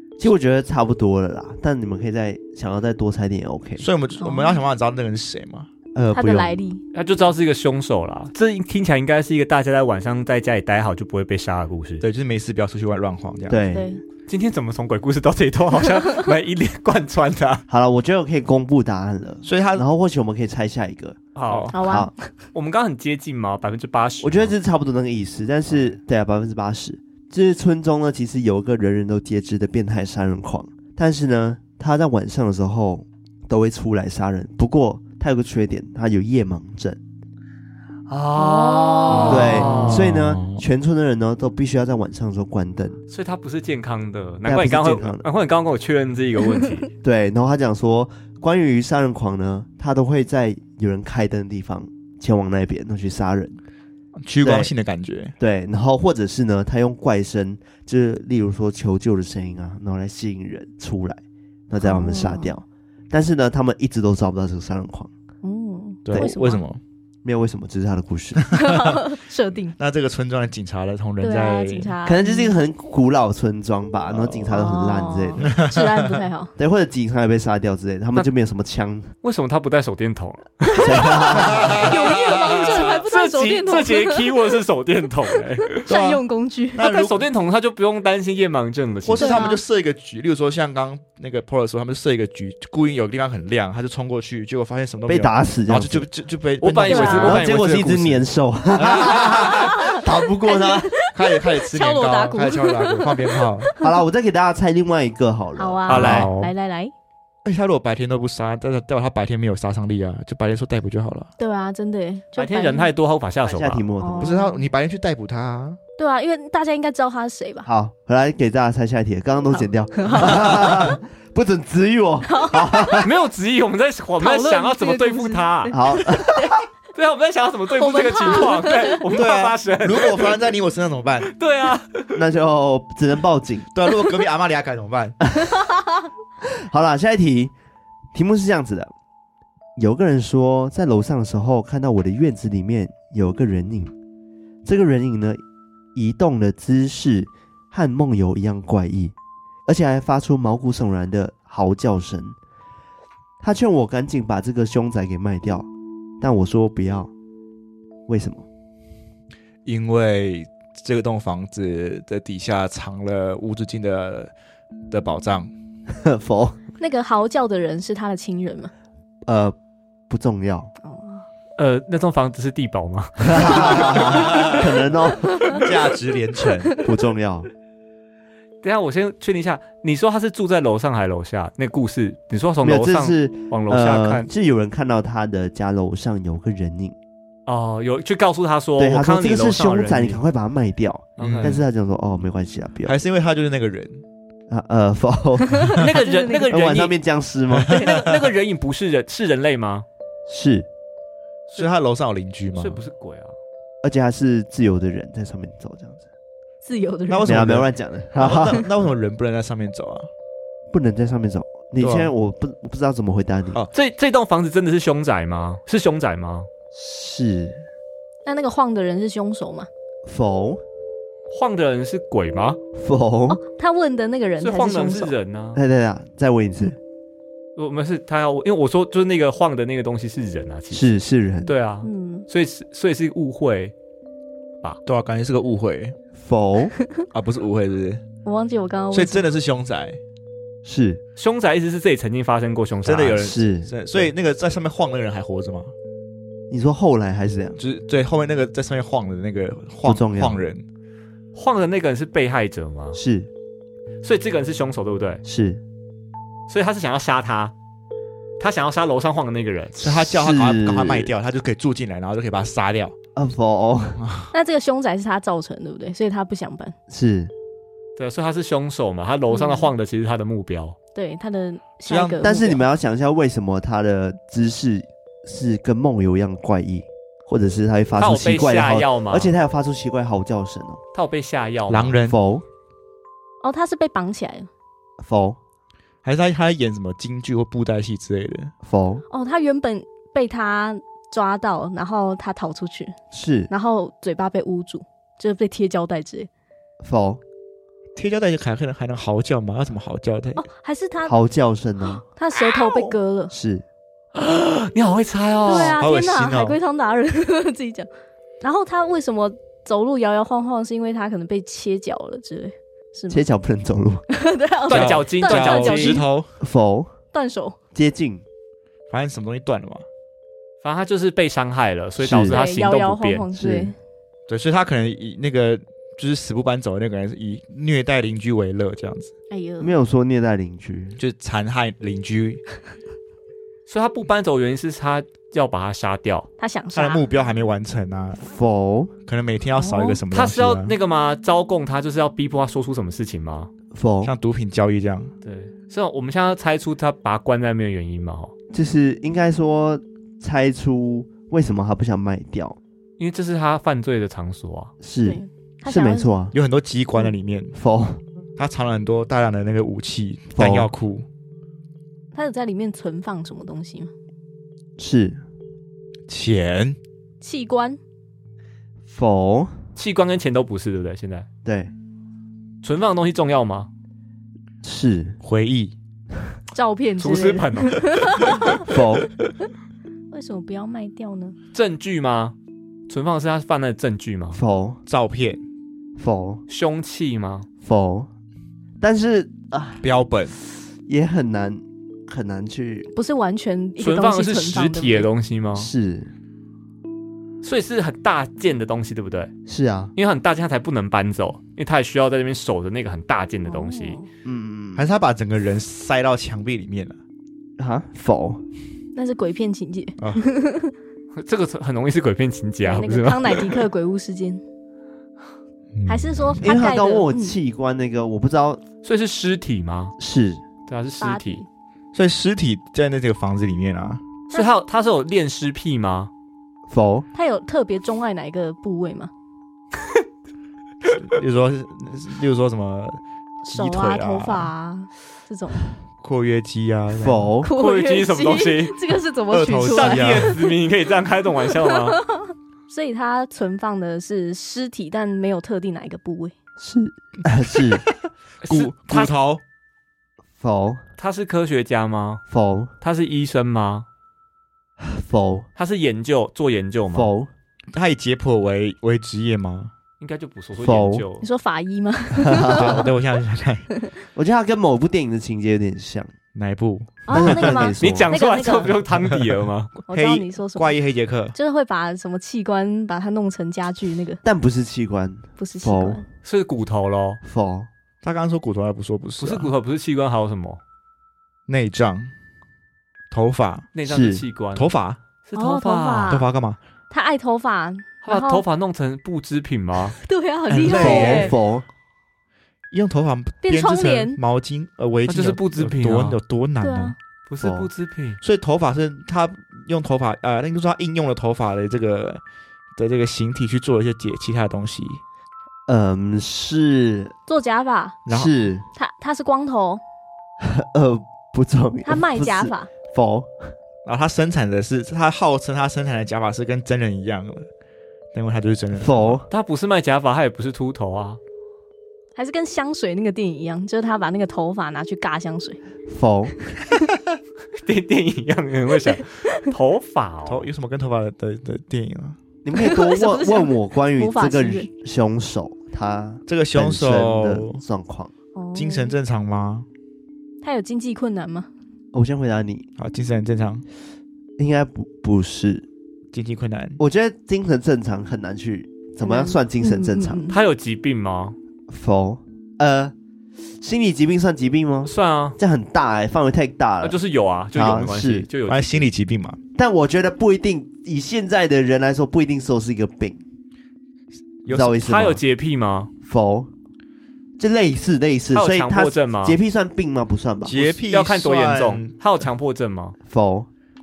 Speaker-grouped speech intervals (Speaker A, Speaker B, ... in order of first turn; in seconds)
Speaker A: 0.2-3.9, 6.0-6.6, 13.5-13.9, 17.7-21.2, 21.8-22.1, 24.2-37.0, 39.3-43.0, 44.5-45.3, 47.0-53.6, 54.4-54.7, 55.4-65.1, 67.2-68.6, 72.0-75.5, 76.6-79.1, 80.8-81.9, 95.1-96.1, 97.1-101.0, 103.8-106.2, 113.5-114.4, 117.7-123.1, 125.7-126.5, 132.2-133.7, 135.3-135.6, 136.4-137.5, 138.1-138.9, 139.8-143.9, 144.7-145.4, 145.9-149.1, 149.7-152.4, 153.4-155.7, 156.2-157.1, 158.1-158.4, 165.9-166.6, 169.3-169.6, 170.1-170.7, 173.2-175.6, 176.8-177.5, 182.6-186.9, 188.8-193.0, 194.5-195.9, 196.5-197.8, 200.3-200.7, 203.8-206.0, 207.3-208.7, 210.7-213.6, 216.7-217.6, 220.1-220.6, 222.8-223.4, 225.6-226.8, 230.7-231.5, 236.2-236.7, 240.7-241.0, 243.2-244.1, 246.5-247.6, 249.8-250.4, 252.9-253.3, 255.2-255.6, 259.8-261.1, 263.2-264.0, 266.9-267.3, 272.2-280.8, 282.1-282.4, 285.0-285.4, 288.6-289.0, 293.1-293.5, 296.8-297.2, 301.1-302.0, 303.3-303.6, 313.1-314.0, 316.4-316.9, 317.7-318.2, 322.0-322.4, 323.4-323.7, 329.6-331.0, 338.2-338.9, 343.7-344.1, 348.5-352.6, 354.8-356.4, 357.6-358.0, 360.4-360.7, 364.8-365.2, 368.9-369.5, 371.4-371.7, 374.6-375.2, 378.5-379.1, 384.3-384.8, 386.0-386.4, 387.6-388.1, 388.8-389.8, 390.9-392.9, 395.6-396.1, 399.5-399.9, 404.2-404.9, 407.6-408.4, 416.4-418.6, 420.0-420.4, 426.7-427.1, 437.0-437.5, 446.6-447.8, 450.4-450.8, 452.3-452.7, 454.8-455.5, 456.9-457.3, 460.6-461.1, 462.2-462.9, 464.1-466.1, 467.1-468.1, 474.2-476.0, 477.2-477.7, 483.9-484.2, 490.7-491.6, 497.4-497.7, 505.7-507.1, 508.1-508.6, 510.4-513.3, 518.8-519.3, 525.9-526.5, 532.4-538.1, 541.9-542.7, 544.4-545.7, 546.8-550.2, 551.7-552.9, 553.6-557.0, 557.5-558.3, 559.5-563.2, 564.5-565.2, 566.0-566.5, 567.4-570.7, 573.1-573.5
Speaker B: 3.8-5.7, 12.0-13.7, 19.4-19.9, 21.5-21.8, 39.1-40.6, 54.2-55.3, 66.1-66.8, 68.4-69.0, 69.8-71.9, 74.1-74.5, 75.4-76.2, 81.3-83.0, 85.9-86.2, 86.7-87.3, 89.0-97.6, 98.8-100.0, 101.1-103.7, 105.9-106.5, 107.5-111.3, 114.2-115.8, 129.1-131.3, 133.7-135.2, 159.7-164.3, 164.9-165.5, 173.9-174.6, 175.4-176.8, 191.2-191.6, 192.8-194.0, 197.5-198.1, 201.5-202.8, 207.1-210.1, 211.8-212.1, 234.8-235.9, 237.1-238.0, 238.9-240.0, 242.8-245.7, 247.6-250.6, 259.8-262.9, 264.0-264.3, 271.9-272.2, 281.7-282.2, 286.0-288.5, 298.0-300.5, 305.5-306.6, 314.7-316.3, 318.9-319.9, 324.3-329.1, 331.0-332.4, 336.7-338.2, 339.1-340.7, 344.0-345.1, 356.3-357.6, 358.4-361.1, 366.1-366.8, 375.2-375.8, 384.9-385.4, 389.8-390.4, 404.8-407.0, 415.7-416.5, 421.9-424.0, 430.9-434.5, 436.0-437.4, 439.3-440.4, 447.6-447.9, 448.5-449.4, 457.7-459.7, 462.4-463.7, 466.4-467.7, 469.1-469.4, 469.9-471.4, 478.0-479.5, 481.5-482.1, 483.1-483.7, 484.6-485.0, 486.1-486.6, 490.5-491.4, 492.7-496.9, 498.2-502.2, 502.8-505.0, 508.1-508.3, 513.9-517.5, 518.1-519.2, 530.3-532.2, 536.3-537.6, 538.5-539.7, 542.8-543.6, 546.1-546.8, 558.5-559.4, 564.5-564.8, 570.4-572.0
Speaker C: 4.2-4.6, 6.1-6.8, 13.7-14.0, 15.9-16.3, 21.7-22.3, 38.4-39.8, 61.8-62.5, 65.4-66.6, 68.5-69.8, 71.2-72.6, 74.5-76.5, 81.1-84.5, 85.7-86.9, 89.2-89.6, 96.9-97.4, 99.5-103.9, 105.6-106.9, 111.4-112.9, 114.0-114.6, 116.0-117.7, 119.5-121.0, 122.3-123.1, 124.2-126.6, 127.8-129.0, 166.8-168.7, 170.8-171.2, 175.4-175.7, 195.8-196.5, 206.7-207.4, 218.3-219.7, 223.3-225.2, 231.8-232.3, 238.2-239.3, 264.3-266.7, 269.3-269.7, 270.9-272.6, 283.4-284.5, 289.1-293.0, 293.5-296.3, 300.4-301.2, 302.1-303.3, 305.5-307.9, 308.4-313.2, 314.1-316.1, 317.1-317.6, 322.3-323.8, 329.3-329.8, 336.4-337.1, 339.6-340.0, 355.0-356.1, 362.1-363.9, 367.2-367.8, 376.5-378.6, 380.1-381.4, 392.9-395.1, 403.5-404.1, 409.0-410.7, 412.6-414.4, 415.9-417.4, 421.0-421.5, 427.1-429.1, 433.5-435.7, 437.4-440.4, 441.5-446.3, 461.2-462.9, 467.1-468.8, 469.8-470.8, 471.3-474.2, 475.4-476.1, 485.4-486.3, 486.9-488.4, 490.0-491.4, 493.4-494.2, 496.6-496.9, 507.3-508.0, 508.8-509.8, 511.8-512.7, 522.2-525.6, 532.5-534.7, 538.4-539.0, 540.4-541.5, 549.0-550.4
Speaker D: 6.9-12.1, 14.3-17.6, 21.4-21.8, 22.5-24.6, 38.1-40.1, 43.1-46.9, 79.2-81.4, 82.7-85.8, 86.8-89.5, 96.6-98.2, 105.9-106.3, 112.4-113.9, 123.0-125.8, 127.0-130.4, 131.2-132.2, 171.6-174.2, 178.6-184.3, 187.5-190.2, 191.2-191.6, 195.7-197.0, 197.7-199.8, 202.5-203.4, 213.7-216.5, 221.3-222.6, 224.4-225.6, 227.6-230.9, 231.5-233.7, 241.2-243.3, 251.3-253.0, 254.0-255.2, 256.5-257.5, 258.4-259.8, 268.0-270.8, 278.0-279.4, 280.9-282.0, 304.1-305.8, 314.7-316.0, 320.6-323.3, 333.7-336.3, 340.1-343.5, 345.2-348.3, 353.0-354.7, 369.8-371.3, 372.6-373.7, 377.0-378.4, 381.5-382.4, 382.9-384.4, 386.5-387.5, 393.8-395.7, 397.4-399.3, 400.0-404.0, 411.1-413.6, 418.8-420.0, 420.7-421.4, 424.3-426.1, 437.6-438.8, 439.6-442.0, 448.4-449.1, 451.0-452.2, 452.8-453.9, 455.6-457.1, 460.0-461.3, 467.8-469.7, 476.2-477.2, 479.2-480.6, 483.7-484.7, 485.3-486.2, 488.1-490.0, 495.1-496.2, 497.3-498.2, 519.3-521.2, 527.6-530.5, 550.3-551.4, 554.9-555.4, 556.8-558.9, 564.8-565.9, 568.3-569.4, 570.9-573.0